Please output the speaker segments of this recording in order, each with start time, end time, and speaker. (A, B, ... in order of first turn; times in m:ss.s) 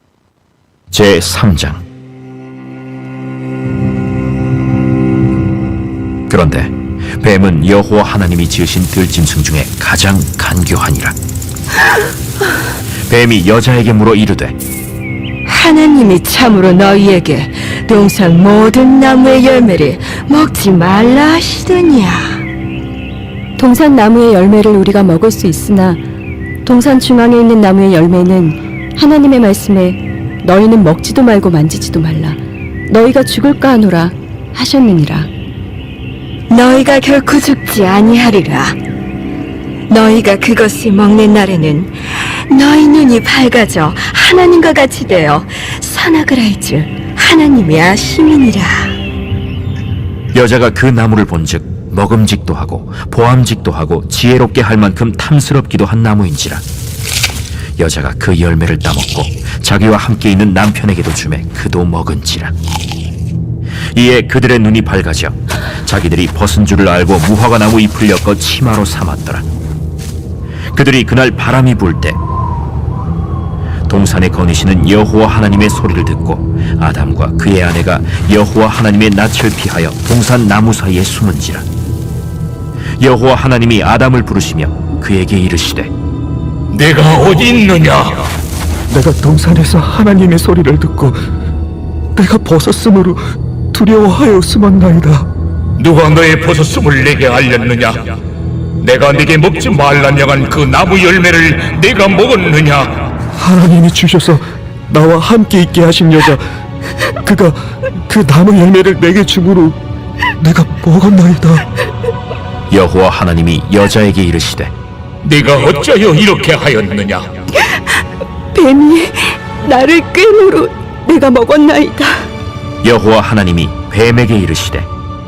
0:00.9-0:01.8 A
0:06.3-0:11.2 A
0:13.1-0:14.6 A
0:15.4-0:22.4 B
0:23.6-0:26.0 C
0:26.6-0:35.3 C
0:36.5-0:38.8 B
0:39.9-0:49.0 B
0:50.3-0:56.6 A
0:57.8-1:02.5 A
1:03.9-1:09.4 A
1:10.7-1:12.2 A
1:13.9-1:21.6 A
1:23.0-1:25.9 A
1:26.7-1:28.3 D
1:28.9-1:31.2 E
1:32.2-1:35.3 E
1:35.8-1:38.2 D
1:38.8-1:43.1 D
1:43.4-1:46.4 E
1:47.2-1:49.8 E
1:50.4-1:51.6 E
1:52.7-1:54.7 A
1:55.2-1:57.3 D
1:58.5-2:02.3 C
2:02.8-2:04.9 A